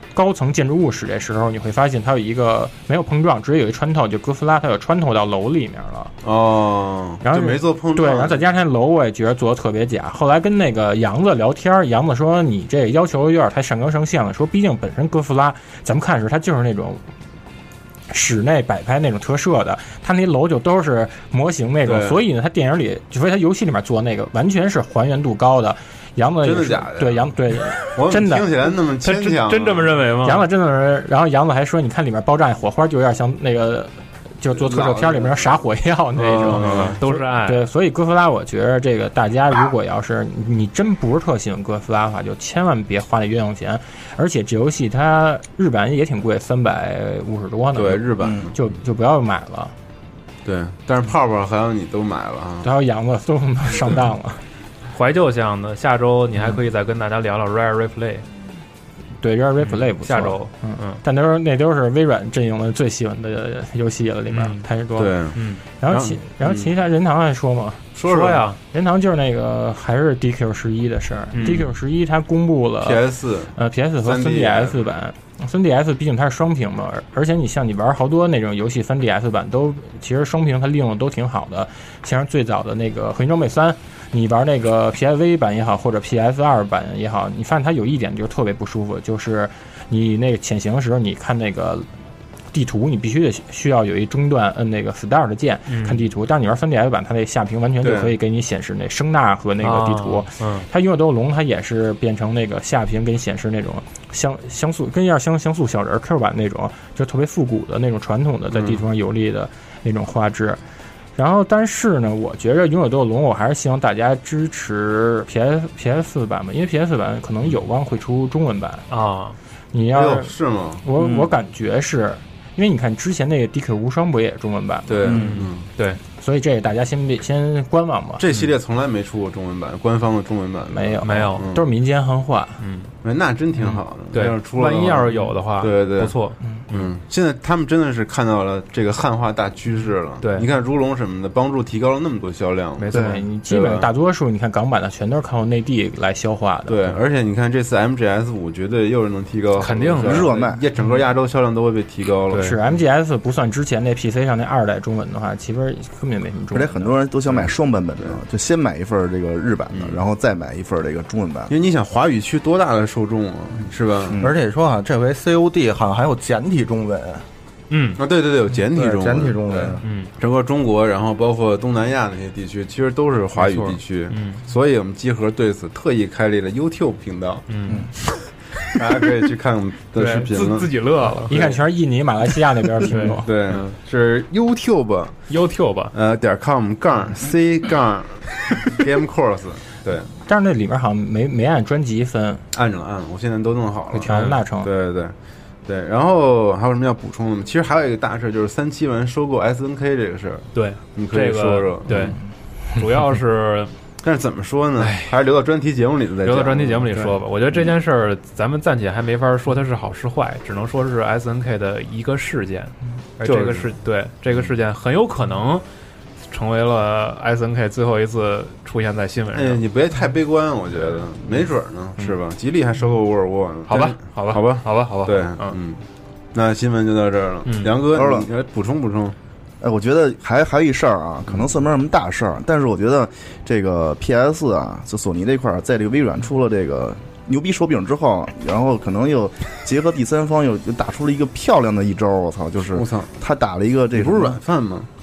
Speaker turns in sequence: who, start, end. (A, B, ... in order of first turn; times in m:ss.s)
0:00.1-0:06.1 A
0:06.2-0:08.4 B
0:07.2-0:17.0 A
0:18.1-0:28.5 A
0:21.8-0:22.2 B
0:26.4-0:27.3 B
0:27.9-0:30.0 B
0:29.0-0:30.5 C
0:30.2-0:49.7 A
0:34.5-0:35.4 B
0:36.2-0:37.6 C
0:36.3-0:37.0 B
0:47.8-0:48.6 B
0:48.2-0:48.5 D
0:50.4-0:52.7 B
0:52.6-0:54.4 A
0:54.9-0:58.2 C
0:59.2-1:05.2 A
0:59.6-1:01.0 C
1:04.3-1:04.6 C
1:05.0-1:06.7 B
1:05.4-1:05.6 C
1:05.8-1:07.9 A
1:08.0-1:08.4 B
1:08.0-1:08.6 C
1:08.7-1:13.0 A
1:11.3-1:11.7 C
1:11.4-1:11.7 B
1:12.8-1:14.8 B
1:13.6-1:31.9 A
1:32.5-1:50.6 A
1:35.7-1:36.0 C
1:37.8-1:38.2 B
1:39.6-1:40.7 C
1:48.5-1:48.8 B
1:51.2-1:58.9 A
1:58.9-1:59.4 C
1:59.7-2:05.2 A
1:59.9-2:00.8 B
2:01.0-2:01.3 D
2:04.9-2:05.7 B
2:05.0-2:05.4 D
2:05.0-2:06.0 C
2:06.2-2:08.2 A
2:08.2-2:11.6 B
2:10.7-2:12.6 A
2:11.0-2:11.4 C
2:12.6-2:12.9 C
2:13.0-2:16.2 B
2:13.6-2:16.9 C
2:16.7-2:23.9 B
2:20.2-2:20.5 C
2:22.8-2:23.2 C
2:22.9-2:26.8 A
2:26.7-2:32.8 B
2:29.6-2:30.3 C
2:30.0-2:30.6 D
2:32.3-2:32.6 C
2:32.4-2:36.9 A
2:36.5-2:41.5 D
2:37.3-2:38.2 B
2:39.7-2:40.0 B
2:41.5-2:44.2 B
2:44.2-2:47.2 E
2:47.7-2:48.0 C
2:48.0-2:57.4 B
2:48.7-2:49.8 E
2:49.8-2:50.1 C
2:53.4-2:54.4 C
2:57.5-2:57.9 C
2:58.7-3:00.7 B
3:00.0-3:01.5 C
3:01.3-3:03.3 A
3:02.8-3:03.6 C
3:03.2-3:05.2 B
3:05.3-3:05.9 C
3:05.9-3:10.1 B
3:10.3-3:12.4 A
3:12.5-3:15.1 B
3:13.9-3:14.7 A
3:14.1-3:14.4 C
3:15.7-3:22.2 B
3:20.5-3:22.2 C
3:22.8-3:23.7 C
3:24.0-3:27.2 B
3:24.8-3:25.2 C
3:26.2-3:35.6 C
3:33.2-3:33.7 B
3:36.3-3:39.6 C
3:39.3-3:45.8 B
3:40.8-3:41.1 C
3:43.7-3:45.6 C
3:46.3-3:49.2 B
3:47.5-3:47.8 C
3:47.9-3:48.3 D
3:49.6-4:04.4 D
4:02.7-4:03.1 B
4:03.9-4:04.9 B